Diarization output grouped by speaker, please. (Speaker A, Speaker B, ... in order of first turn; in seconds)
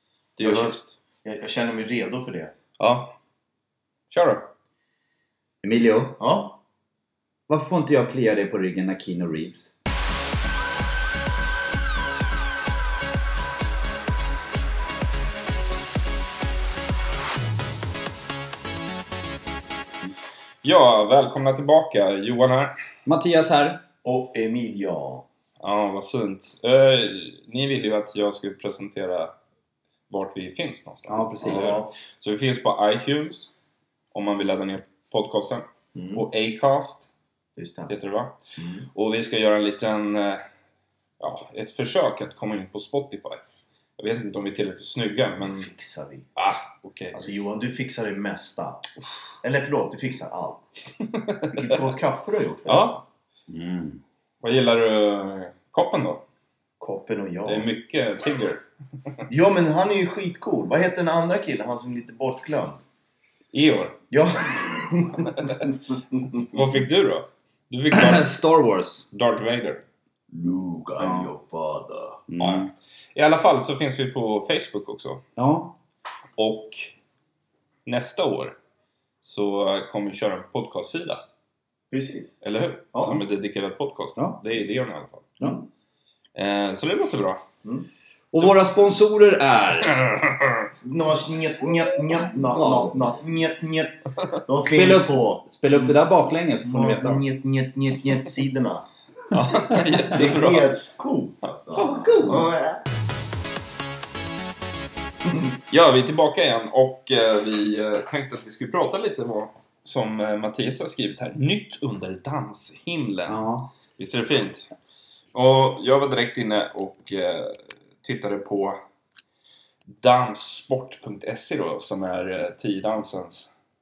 Speaker A: 0.4-0.9, 2.8-3.1, 4.1-4.5, 20.6-22.7, 25.6-29.3, 30.1-33.5, 34.1-37.1, 37.9-38.4, 38.9-40.4, 41.2-43.4, 44.0-45.7, 46.4-47.2, 51.1-51.8, 52.7-53.0, 54.4-56.2, 57.5-58.6, 63.5-64.0, 65.2-65.7, 66.4-68.3, 69.1-69.8, 72.4-75.2, 76.4-76.9, 77.9-78.6, 79.2-81.2, 82.4-85.4, 86.3-87.4, 89.8-90.7, 99.3-100.8, 105.7-114.7, 115.3-118.8, 119.9-123.5
Speaker B: 0.4-2.5, 6.2-6.6, 24.0-25.3, 31.4-31.9, 36.0-36.2, 37.6-37.9, 38.6-38.9, 45.4-46.3, 47.1-48.8, 49.4-50.7, 51.5-53.0, 56.8-57.7, 59.3-62.8, 64.1-66.7, 70.3-72.2, 81.9-82.3, 82.9-83.2, 90.8-96.0, 96.7-98.9, 100.1-102.8, 105.2-105.6
Speaker C: 5.6-6.2, 7.5-9.7, 23.1-23.8, 31.1-31.8, 53.5-54.0, 67.9-69.1, 71.0-71.3, 72.3-72.7, 75.4-75.8, 88.3-90.0, 92.3-93.0, 94.7-97.2, 101.7-102.5, 113.3-113.7